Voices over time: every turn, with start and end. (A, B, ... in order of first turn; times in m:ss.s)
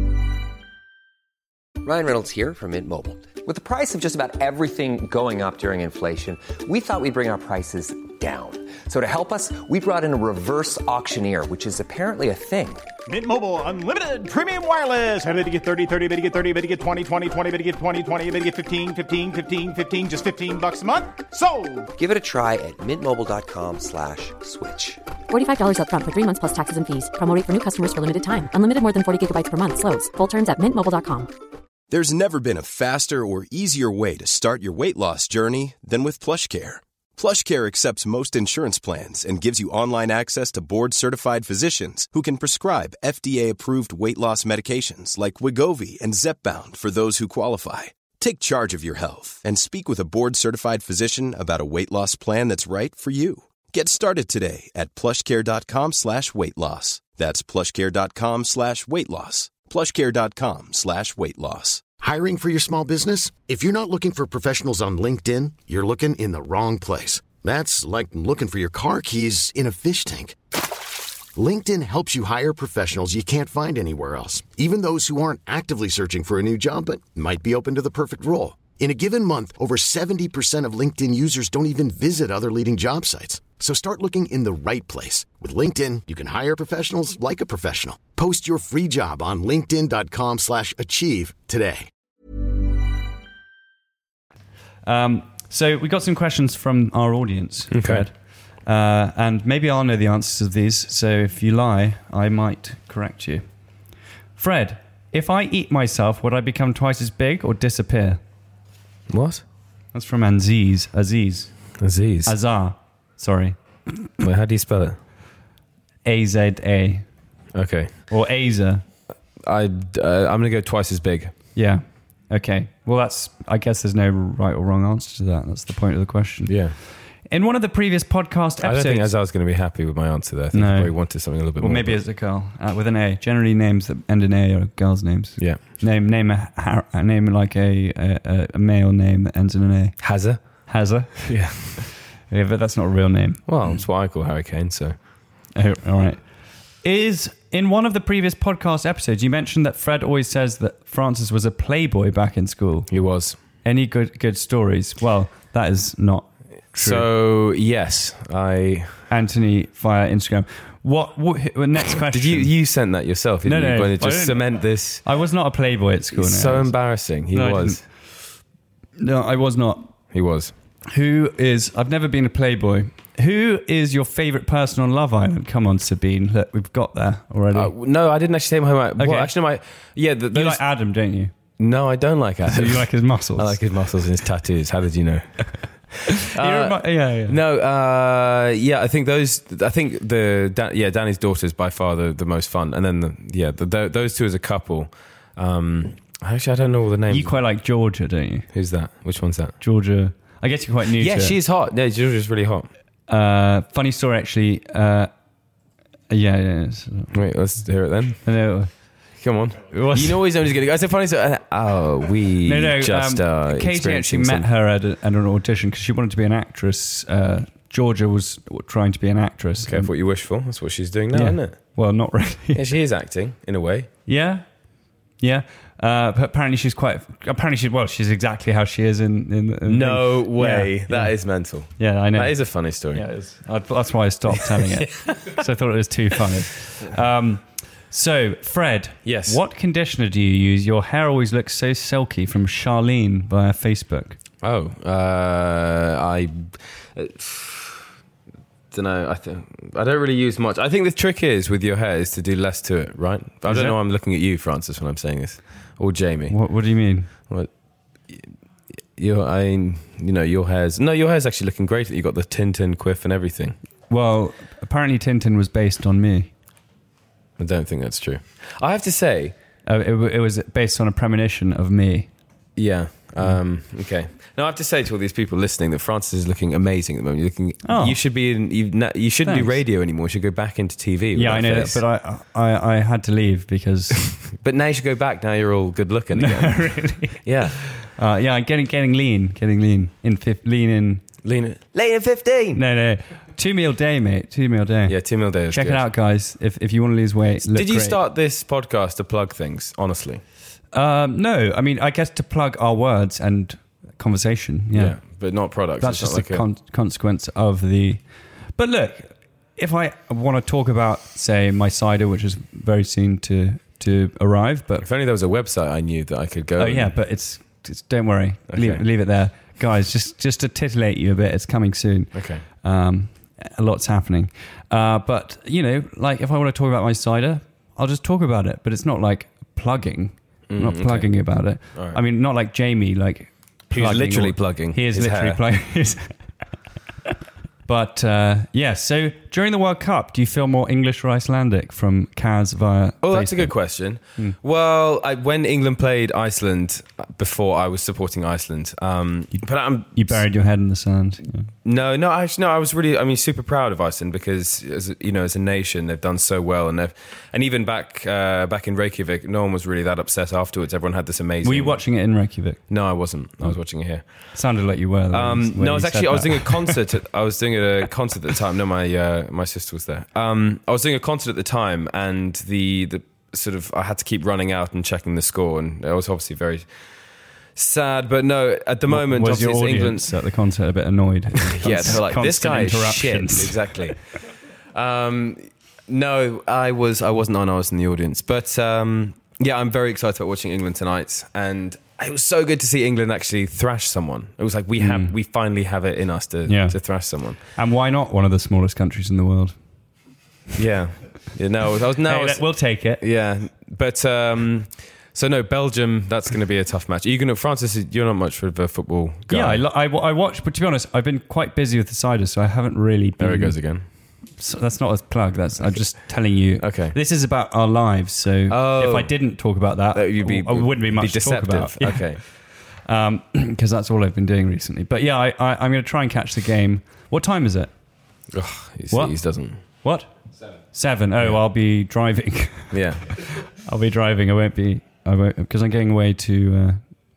0:01.8-0:12.8 A
0:13.1-0:21.9 B
0:22.0-0:25.0 A
0:25.3-0:31.3 C
0:31.9-1:01.8 D
1:02.0-1:10.4 E
1:11.3-1:31.9 E
1:34.8-1:38.1 F
1:37.7-1:38.0 G
1:38.6-1:43.4 F
1:44.4-1:48.2 F
1:49.1-1:49.4 G
1:49.9-1:51.6 F
1:51.8-1:52.3 G
1:52.2-1:53.6 F
1:54.2-1:55.0 G
1:56.0-1:57.0 F
1:57.5-1:58.0 G
1:58.1-1:58.8 F
1:59.4-2:01.3 G
2:01.6-2:06.5 F
2:06.5-2:06.7 G
2:07.3-2:09.1 F
2:08.6-2:12.0 G
2:10.5-2:23.8 F
2:20.0-2:20.4 G
2:21.2-2:21.8 G
2:23.5-2:25.0 G
2:25.6-2:26.2 F
2:26.8-2:32.9 F
2:32.9-2:33.4 G
2:33.6-2:37.1 F
2:36.8-2:39.0 G
2:39.1-2:42.5 F
2:42.1-2:45.0 G
2:43.4-2:44.4 F
2:45.0-2:46.7 F
2:46.1-2:47.8 G
2:47.3-2:47.8 F
2:49.0-2:49.9 F
2:50.1-2:50.5 G
2:50.9-2:57.7 F
2:57.5-3:00.6 G
2:59.0-2:59.3 F
3:00.3-3:01.3 F
3:01.6-3:17.3 G
3:02.5-3:03.6 F
3:06.2-3:07.4 F
3:17.1-3:18.5 F
3:18.5-3:19.5 G
3:19.6-3:21.4 F
3:21.0-3:22.7 G
3:23.1-3:25.1 F
3:26.1-3:27.2 F
3:27.1-3:28.2 G
3:28.2-3:28.7 F
3:29.2-3:34.5 G
3:29.7-3:30.2 F
3:32.4-3:39.9 F
3:39.6-3:41.6 G
3:41.1-3:42.6 F
3:42.5-3:43.9 G
3:44.1-3:44.4 F
3:45.2-3:51.1 F
3:49.6-3:53.0 G
3:51.8-3:52.4 F
3:52.9-4:04.2 F
3:54.7-3:55.2 G
3:59.0-3:59.4 G
4:04.4-4:07.8 G
4:08.7-4:16.4 G
4:13.4-4:13.8 F
4:16.3-4:17.1 F
4:19.0-4:23.6 G
4:23.9-4:26.3 F
4:27.4-4:29.3 G
4:29.7-4:32.1 F
4:32.6-4:41.8 G
4:37.6-4:38.0 F
4:39.2-4:39.5 F
4:41.1-4:44.1 F
4:44.4-4:47.6 G
4:46.1-4:47.3 F
4:48.0-4:51.0 F
4:51.2-4:52.6 G
4:52.5-4:55.0 F
4:54.9-4:55.8 G
4:55.5-4:58.0 F
4:57.5-5:00.2 G
5:00.7-5:05.0 F
5:04.7-5:06.4 G
5:05.8-5:08.0 F
5:08.6-5:14.8 F
5:14.8-5:16.9 G
5:16.6-5:36.1 F
5:18.5-5:18.8 G
5:22.1-5:22.4 G
5:30.5-5:31.1 G
5:33.7-5:35.4 G
5:37.6-5:43.5 F
5:43.0-5:50.2 G
5:49.9-5:51.4 F
5:51.6-6:01.8 G
6:01.4-6:02.6 F
6:02.7-6:04.0 G
6:04.3-6:06.8 F
6:05.1-6:16.6 G
6:17.6-6:20.1 G
6:18.9-6:23.9 F
6:21.4-6:24.0 G
6:24.7-6:37.4 G
6:34.8-6:35.1 F
6:36.5-6:36.8 F
6:37.5-6:39.5 F
6:40.6-6:49.6 G
6:42.0-6:43.0 F
6:49.3-6:53.6 F
6:53.2-6:53.8 G
6:54.4-7:02.2 F
6:56.6-6:57.0 G
6:58.5-6:59.1 G
6:59.9-7:02.2 G
7:02.8-7:07.7 F
7:08.3-7:09.6 G
7:08.9-7:10.1 F
7:10.7-7:16.8 F
7:12.7-7:13.0 G